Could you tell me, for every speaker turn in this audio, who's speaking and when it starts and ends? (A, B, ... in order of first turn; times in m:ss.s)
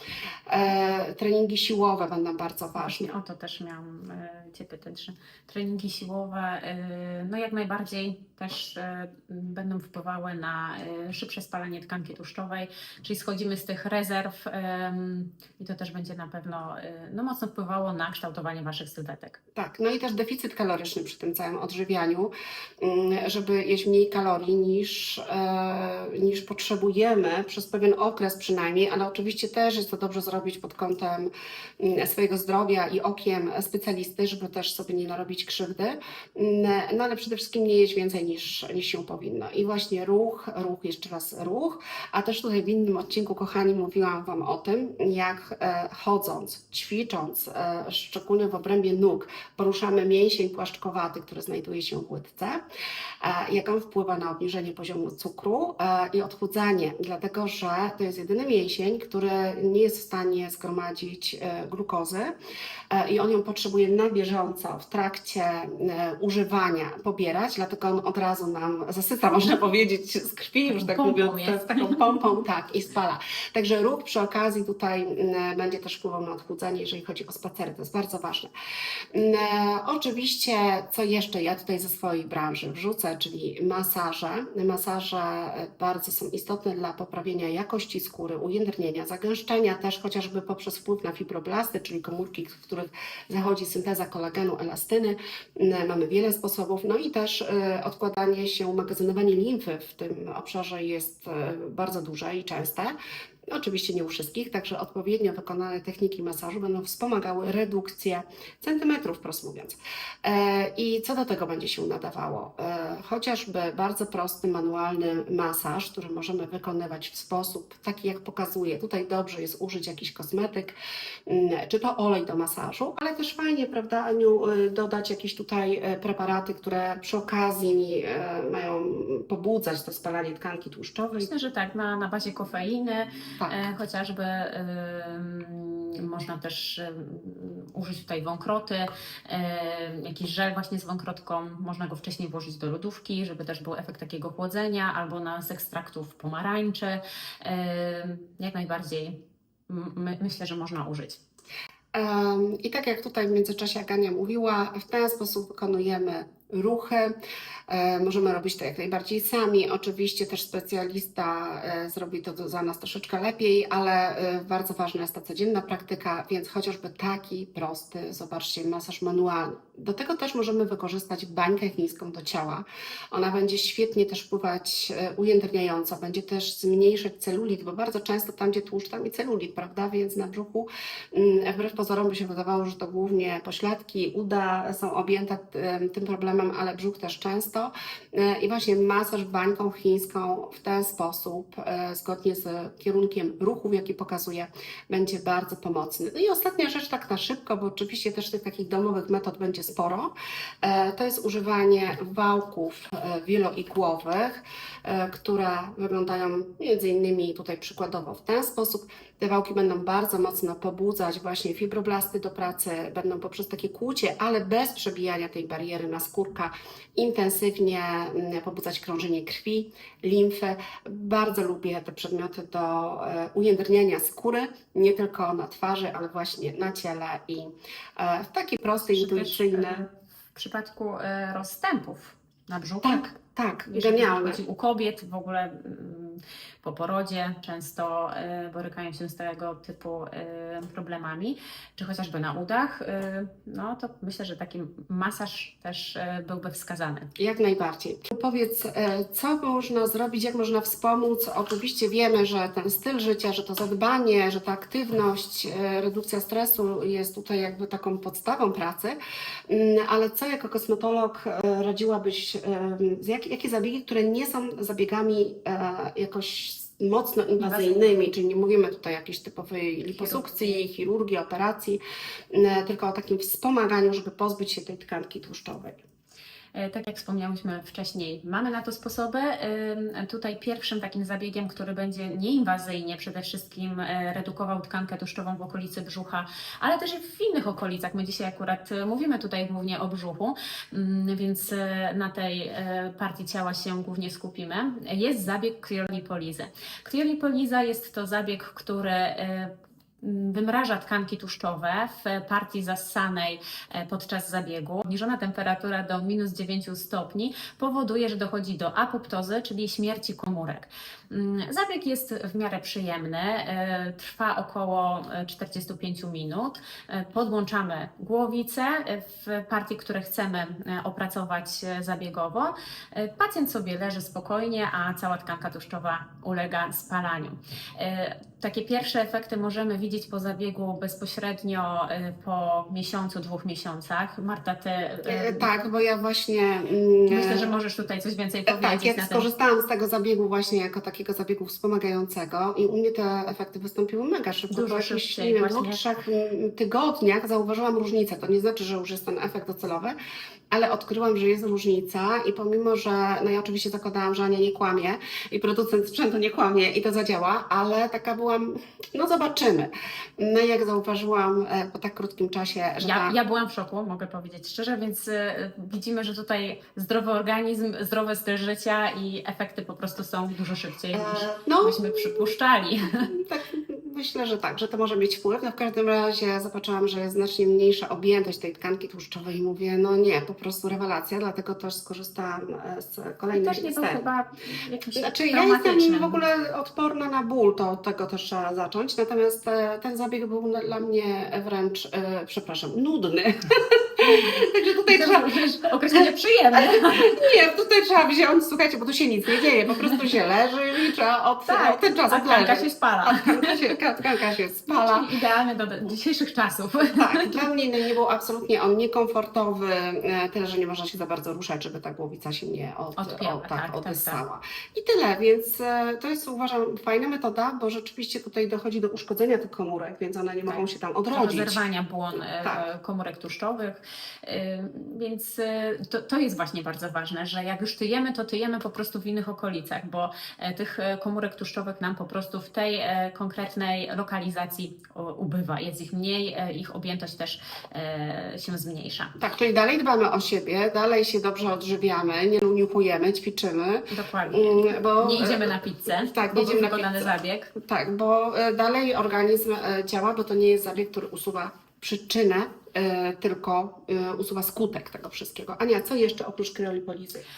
0:00.5-0:03.1 A
0:02.8-0:19.4 B
0:19.6-0:52.6 A
0:53.2-1:02.3 A
1:02.9-1:18.5 A
1:10.7-1:12.2 B
1:19.1-1:43.0 A
1:43.5-2:00.8 A
2:01.3-2:11.3 A
2:11.2-2:31.2 B
2:13.4-2:13.6 A
2:31.9-2:37.2 A
2:37.7-3:49.8 A
3:48.9-3:53.1 B
3:52.8-3:54.4 A
3:53.7-4:07.1 B
4:07.2-4:19.0 A
4:19.5-4:31.8 A
4:27.4-4:28.0 B
4:30.0-4:30.2 B
4:32.3-4:35.8 A
4:36.5-5:35.5 B
5:35.0-5:37.5 A
5:37.1-5:39.3 B
5:38.5-5:50.0 A
5:44.5-5:45.8 B
5:50.5-6:03.2 A
6:02.8-6:13.1 B
6:10.9-6:12.3 A
6:13.0-6:24.1 A
6:23.3-6:26.2 B
6:25.0-6:45.2 A
6:34.0-6:37.2 B
6:41.5-6:43.6 B
6:44.7-6:47.4 B
6:46.8-7:01.6 A
6:53.0-6:54.2 B
7:01.1-7:19.1 B
7:19.2-7:37.2 A
7:23.9-7:27.5 B